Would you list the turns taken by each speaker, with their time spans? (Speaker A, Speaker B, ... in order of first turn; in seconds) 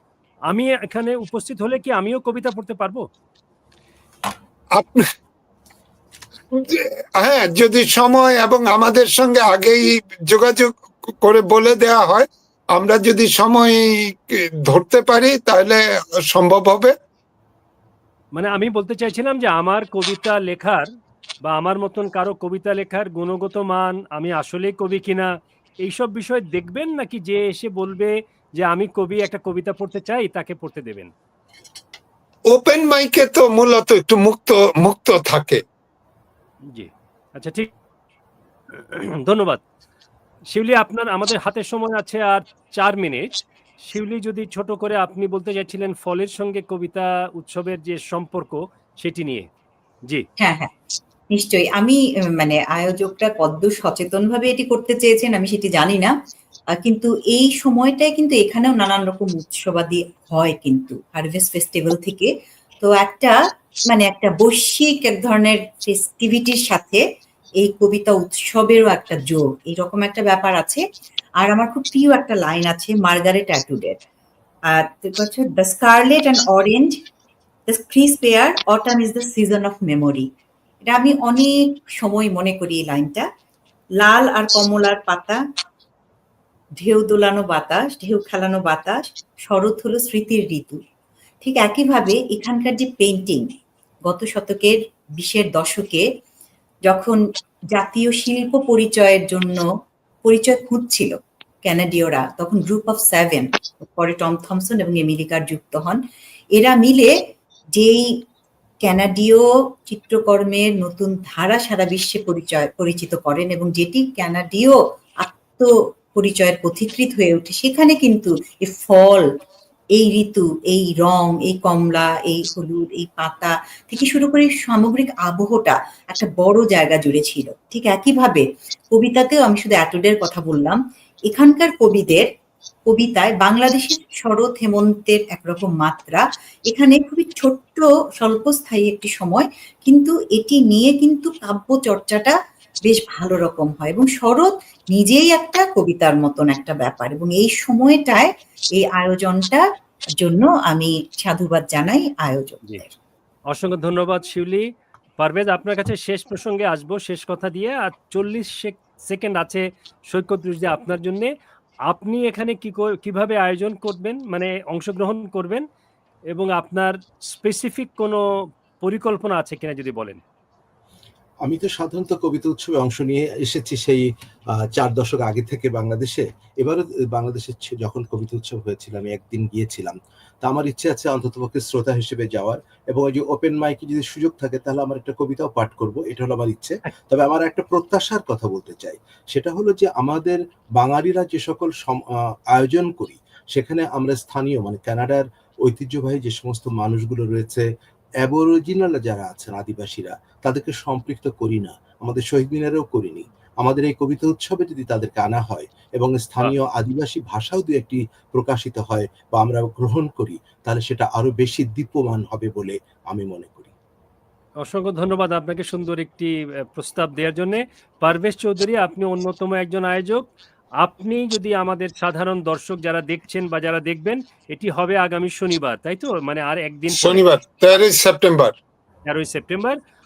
Speaker A: 0.5-3.0, 18.4-20.9, 21.4-25.3, 25.8-31.1, 36.7-37.7, 38.7-39.6, 40.5-49.5, 153.5-154.7, 155.2-161.3, 161.9-165.7, 166.3-168.2, 168.8-170.2, 214.6-220.3, 220.8-227.3, 229.1-229.8
Speaker B: 4.8-5.1, 6.5-16.9, 32.5-35.6, 226.9-228.6
Speaker C: 50.4-50.7, 51.3-56.1, 56.8-67.0, 67.6-70.8, 71.4-74.0, 74.7-77.0, 77.7-80.3, 80.9-83.3, 84.0-85.4, 86.8-90.8, 91.4-96.1, 96.9-97.2, 97.7-99.7, 100.2-106.0, 106.5-107.2, 107.7-108.2, 108.8-119.3, 119.9-132.3, 132.9-149.7, 150.2-152.9
Speaker D: 171.4-197.7, 198.2-213.7